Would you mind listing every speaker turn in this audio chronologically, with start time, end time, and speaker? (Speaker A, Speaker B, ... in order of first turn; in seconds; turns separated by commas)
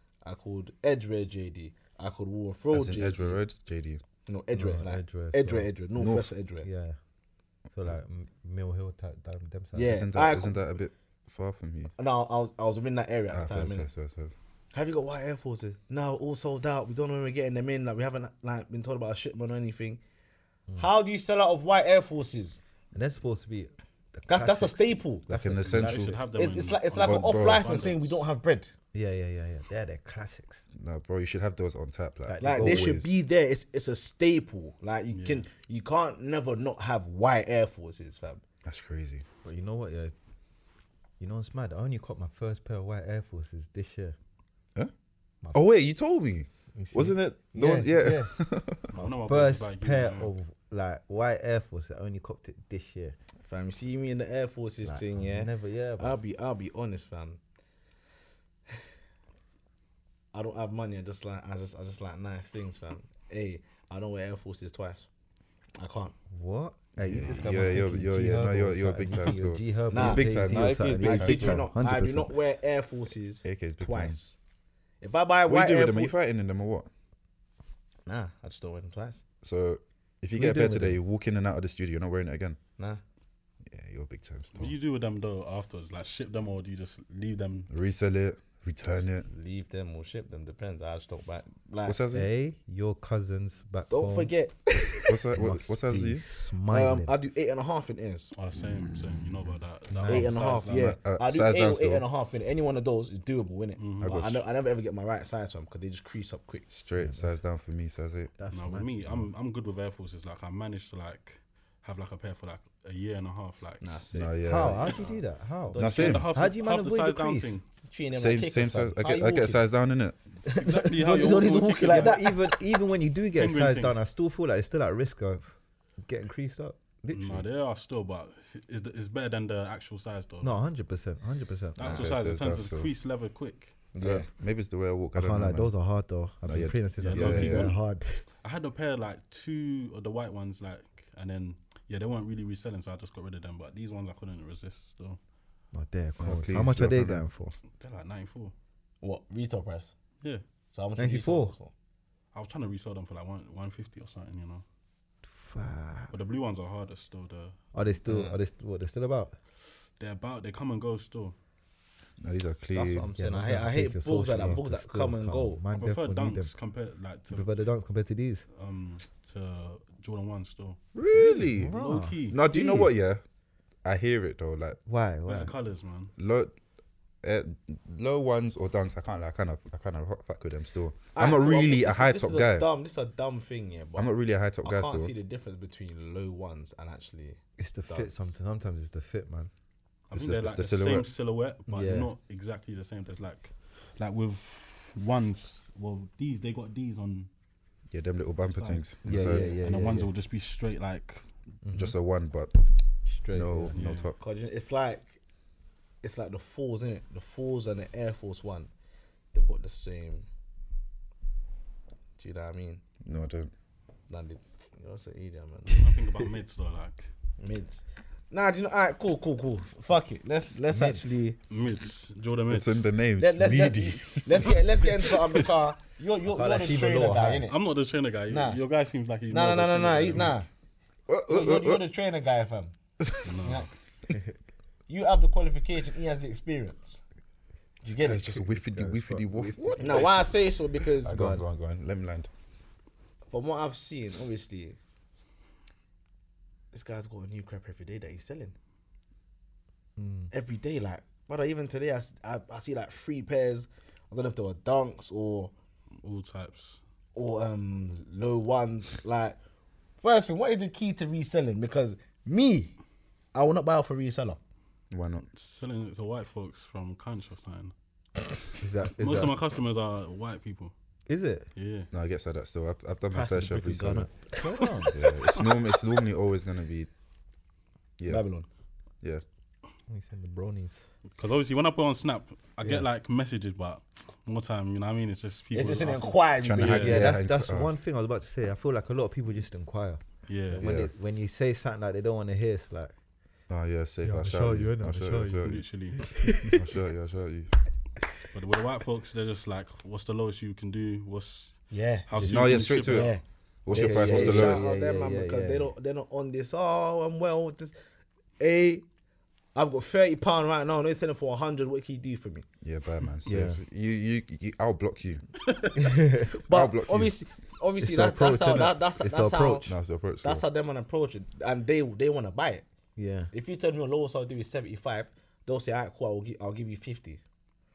Speaker A: 0.2-3.4, Speaker B: 2.7-4.0, Speaker A: 4.2-6.7, Speaker C: 4.5-5.8, Speaker B: 6.0-6.3, Speaker C: 6.6-7.0, Speaker C: 7.7-10.0, Speaker A: 9.7-10.6, Speaker B: 9.8-11.9, Speaker A: 12.0-13.9, Speaker B: 13.3-14.3, Speaker A: 14.7-20.0, Speaker A: 20.8-22.6, Speaker C: 22.9-26.1, Speaker A: 24.3-28.7, Speaker B: 25.3-26.2, Speaker D: 25.7-28.2, Speaker B: 27.0-27.8, Speaker C: 28.9-30.7, Speaker B: 30.8-33.1, Speaker C: 32.2-33.0, Speaker A: 32.4-38.4, Speaker D: 35.1-35.4, Speaker B: 38.6-39.2, Speaker C: 39.4-40.1, Speaker C: 41.2-44.1, Speaker B: 45.5-48.9, Speaker C: 46.7-48.4, Speaker D: 48.9-50.3, Speaker C: 48.9-53.1, Speaker A: 53.4-57.4, Speaker C: 54.8-56.2, Speaker A: 60.3-65.1, Speaker A: 65.8-66.1, Speaker C: 66.3-72.4, Speaker B: 67.0-71.7, Speaker A: 69.9-74.4, Speaker B: 73.4-74.2, Speaker A: 75.0-76.2, Speaker B: 75.5-76.9, Speaker A: 78.0-79.2, Speaker B: 79.4-82.6, Speaker C: 80.3-81.0, Speaker B: 83.7-84.8, Speaker D: 84.5-87.7, Speaker B: 87.7-89.3, Speaker A: 89.2-92.0, Speaker B: 91.8-92.3, Speaker C: 92.1-94.3, Speaker A: 93.9-95.2, Speaker C: 94.9-97.1, Speaker B: 95.0-96.2, Speaker A: 96.7-98.3, Speaker D: 98.3-100.9, Speaker C: 99.9-100.4, Speaker A: 100.0-106.7, Speaker B: 100.7-102.0, Speaker D: 103.8-104.2, Speaker B: 104.0-104.4, Speaker B: 106.7-108.3, Speaker C: 107.0-107.4, Speaker C: 108.4-109.3, Speaker D: 108.5-114.0, Speaker A: 113.8-116.2, Speaker B: 114.1-115.0, Speaker C: 114.4-117.6, Speaker B: 115.8-116.3, Speaker D: 115.8-117.6, Speaker A: 117.8-119.6, Speaker B: 118.1-120.2, Speaker A: 120.5-122.6, Speaker D: 120.5-122.2, Speaker C: 121.3-127.4, Speaker D: 123.3-124.0, Speaker D: 127.1-130.6, Speaker C: 130.4-132.0, Speaker D: 131.8-133.8, Speaker B: 131.8-132.9, Speaker A: 133.9-134.3, Speaker B: 134.0-135.8, Speaker C: 135.1-138.2, Speaker B: 136.4-137.8, Speaker D: 137.0-137.8, Speaker D: 138.4-145.2, Speaker C: 145.7-147.6, Speaker B: 146.2-147.3, Speaker D: 147.7-148.5, Speaker A: 149.0-149.9, Speaker A: 150.7-151.7, Speaker C: 151.0-151.5, Speaker D: 152.3-154.6, Speaker C: 155.2-156.2, Speaker D: 156.1-157.6, Speaker C: 157.7-159.4, Speaker A: 158.1-158.4, Speaker D: 160.0-161.4, Speaker B: 162.2-163.1, Speaker A: 162.7-165.6, Speaker C: 163.2-166.5, Speaker D: 165.8-167.5, Speaker C: 167.3-168.4, Speaker D: 168.5-170.8, Speaker C: 171.0-172.9, Speaker B: 171.0-171.8, Speaker D: 171.7-172.4, Speaker B: 172.3-173.2, Speaker B: 173.8-174.8, Speaker C: 174.9-175.5, Speaker D: 175.2-176.1, Speaker B: 176.2-176.6, Speaker B: 177.2-182.7, Speaker A: 181.1-188.3, Speaker B: 183.9-185.1, Speaker C: 187.6-189.5, Speaker D: 190.1-197.3, Speaker B: 190.1-191.1, Speaker C: 191.7-192.1, Speaker B: 197.9-199.6, Speaker D: 198.5-201.3, Speaker C: 199.0-200.1, Speaker C: 201.6-201.9, Speaker B: 201.7-202.5, Speaker C: 203.1-203.8, Speaker B: 203.3-204.2, Speaker D: 203.7-204.1, Speaker A: 204.2-205.2, Speaker A: 206.0-208.7, Speaker A: 209.3-210.3, Speaker A: 212.2-212.8, Speaker B: 213.0-213.5, Speaker A: 214.1-215.9, Speaker D: 215.7-217.1, Speaker A: 217.4-221.4, Speaker C: 220.7-221.2, Speaker D: 221.5-222.9, Speaker B: 222.5-225.5, Speaker A: 223.2-227.6, Speaker C: 226.2-227.5, Speaker D: 227.5-230.4, Speaker A: 228.3-228.6, Speaker A: 229.3-230.5, Speaker B: 231.1-231.9, Speaker A: 231.3-232.7, Speaker B: 233.0-233.3, Speaker D: 233.2-233.6, Speaker A: 233.4-233.7, Speaker A: 234.9-237.0, Speaker A: 237.8-238.4, Speaker B: 237.9-240.2, Speaker C: 238.5-240.2, Speaker A: 239.8-241.3, Speaker B: 240.9-242.3, Speaker C: 241.1-241.4, Speaker A: 243.3-244.8, Speaker A: 246.7-248.6, Speaker C: 250.0-250.3, Speaker A: 250.3-255.5, Speaker D: 256.0-256.8, Speaker A: 257.1-259.4, Speaker A: 260.0-262.8, Speaker A: 263.3-264.4, Speaker B: 264.9-265.2, Speaker D: 265.3-267.7, Speaker C: 268.6-269.4, Speaker D: 268.9-270.7, Speaker C: 271.1-271.5, Speaker D: 271.6-271.9, Speaker B: 271.9-274.1, Speaker A: 273.1-274.6, Speaker C: 273.5-275.0, Speaker B: 274.9-276.9, Speaker A: 278.1-278.5, Speaker C: 279.9-280.8, Speaker D: 281.1-287.1, Speaker A: 285.5-287.0, Speaker B: 286.4-287.7, Speaker C: 286.6-292.9, Speaker D: 290.3-290.6, Speaker B: 290.6-290.9, Speaker B: 293.5-295.6, Speaker C: 294.0-296.6, Speaker D: 295.4-296.1, Speaker B: 296.5-297.6, Speaker D: 298.3-303.1, Speaker A: 301.7-307.7, Speaker B: 302.2-304.7, Speaker C: 303.7-305.7, Speaker A: 308.4-308.9, Speaker A: 309.6-312.5, Speaker B: 312.6-315.3, Speaker C: 313.2-313.6, Speaker C: 315.8-316.4, Speaker A: 316.3-319.7, Speaker B: 316.4-317.2, Speaker C: 317.8-319.7, Speaker B: 319.6-320.4, Speaker A: 320.2-322.6, Speaker C: 322.9-323.3, Speaker A: 323.3-327.2